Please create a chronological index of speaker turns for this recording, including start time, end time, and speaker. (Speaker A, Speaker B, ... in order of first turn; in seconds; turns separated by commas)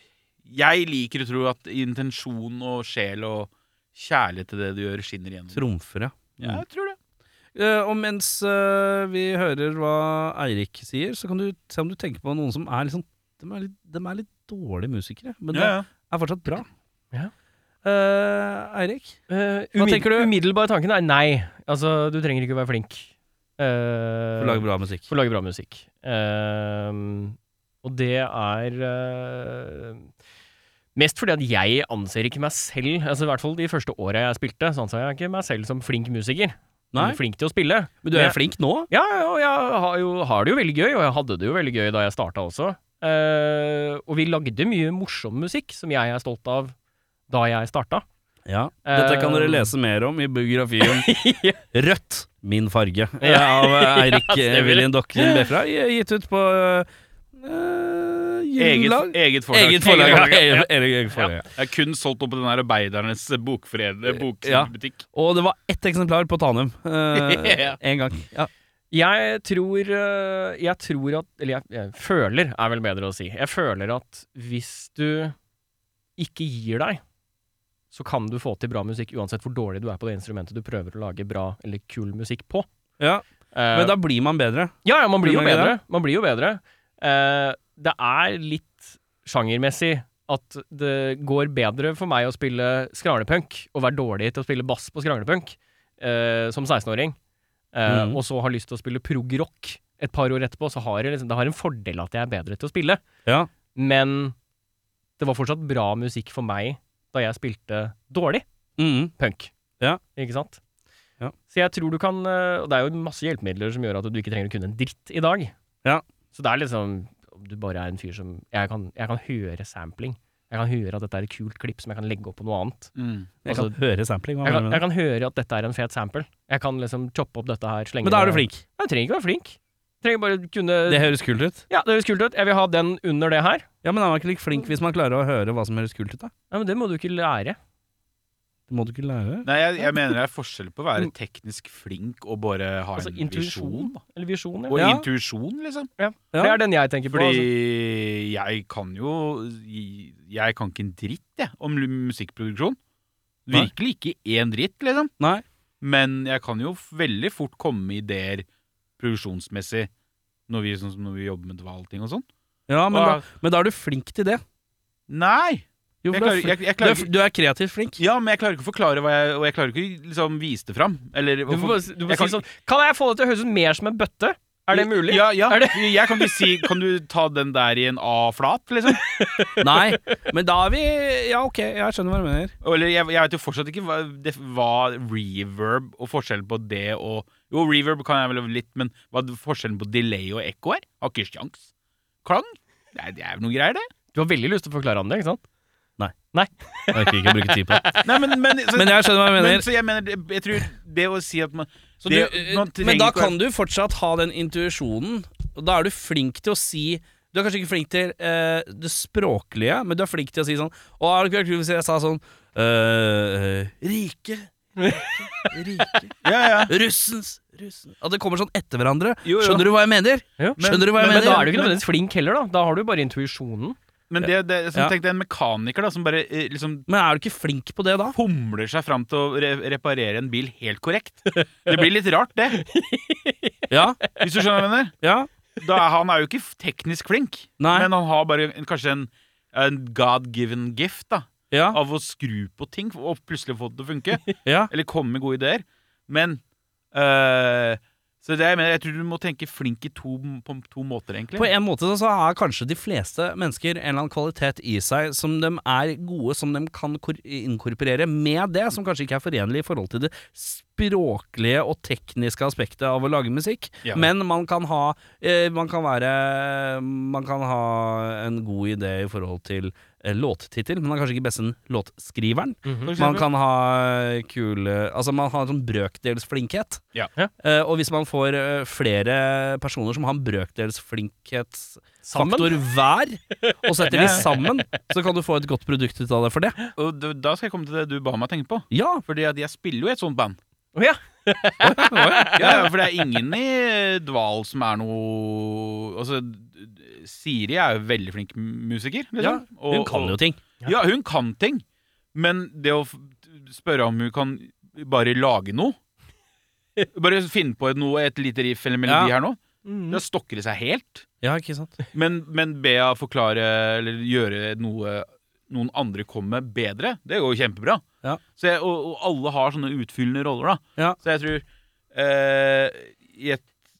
Speaker A: 0.5-5.7, Speaker B: 5.5-6.6, Speaker A: 6.4-7.0, Speaker B: 7.5-16.7, Speaker A: 15.5-15.9, Speaker B: 17.8-19.2, Speaker C: 19.3-30.1, Speaker B: 19.8-20.3, Speaker B: 24.4-25.1, Speaker C: 30.9-38.4, Speaker B: 36.9-37.2, Speaker B: 38.0-38.9, Speaker C: 38.9-46.8, Speaker C: 47.3-48.0, Speaker B: 48.5-61.5, Speaker C: 48.9-49.7, Speaker C: 50.8-51.6, Speaker C: 53.2-55.5, Speaker A: 58.6-60.7, Speaker A: 61.5-65.0, Speaker B: 64.1-68.5, Speaker A: 67.2-67.8, Speaker C: 68.9-75.3, Speaker C: 76.2-77.0, Speaker C: 77.9-82.7, Speaker B: 83.0-85.8, Speaker C: 83.5-84.0, Speaker C: 84.8-97.2, Speaker C: 97.7-103.0, Speaker B: 97.9-98.2, Speaker C: 103.8-104.4, Speaker C: 105.2-108.4, Speaker B: 108.8-109.1, Speaker C: 109.2-109.5, Speaker C: 110.2-110.6, Speaker C: 111.5-115.5, Speaker C: 116.3-122.9, Speaker A: 123.0-123.3, Speaker B: 123.5-124.8, Speaker C: 123.5-123.7, Speaker C: 124.4-131.2, Speaker B: 128.0-128.6, Speaker B: 130.9-131.6, Speaker C: 131.7-133.7, Speaker B: 133.8-136.3, Speaker C: 136.5-137.6, Speaker B: 138.7-139.5, Speaker A: 139.4-144.0, Speaker C: 143.0-144.8, Speaker A: 144.7-145.9, Speaker B: 144.7-145.1, Speaker C: 146.0-147.5, Speaker B: 146.3-146.6, Speaker A: 147.1-152.8, Speaker A: 153.5-155.1, Speaker B: 155.2-155.4, Speaker A: 155.8-158.4, Speaker A: 159.0-159.9, Speaker A: 160.5-162.2, Speaker B: 162.7-164.4, Speaker A: 162.9-163.2, Speaker A: 165.1-167.1, Speaker B: 166.0-168.0, Speaker A: 168.0-172.4, Speaker C: 171.5-176.7, Speaker A: 174.7-179.0, Speaker C: 178.9-179.8, Speaker B: 179.6-182.5, Speaker A: 182.6-191.7, Speaker A: 192.2-193.9, Speaker C: 194.1-195.4, Speaker C: 196.3-198.1, Speaker B: 196.9-198.0, Speaker A: 198.0-203.3, Speaker B: 198.7-199.7, Speaker B: 202.0-221.5, Speaker C: 214.8-215.5, Speaker A: 216.2-216.7, Speaker A: 219.2-219.7, Speaker C: 220.4-223.8, Speaker A: 220.6-221.8, Speaker A: 224.1-226.9, Speaker B: 224.2-224.9, Speaker B: 226.9-228.2, Speaker A: 228.2-232.6, Speaker C: 231.3-231.8, Speaker C: 232.5-234.3, Speaker B: 233.7-234.0, Speaker A: 234.2-235.0, Speaker B: 235.0-235.3, Speaker A: 235.6-246.4, Speaker B: 237.6-237.9, Speaker B: 241.5-241.8, Speaker B: 244.4-244.7, Speaker A: 246.9-251.5, Speaker B: 251.4-276.8, Speaker A: 263.8-264.1, Speaker C: 272.7-272.9, Speaker A: 272.9-273.3, Speaker B: 277.4-286.6, Speaker C: 282.0-282.6, Speaker C: 283.4-284.4, Speaker A: 283.9-284.2, Speaker A: 286.8-290.4, Speaker B: 288.7-289.0, Speaker C: 290.8-292.7, Speaker B: 291.6-292.7, Speaker A: 292.4-301.6, Speaker B: 299.2-300.4, Speaker A: 302.1-305.8, Speaker A: 306.9-311.1, Speaker B: 308.9-309.1, Speaker C: 309.6-310.0, Speaker B: 311.2-311.8, Speaker A: 311.9-317.8, Speaker A: 318.4-323.5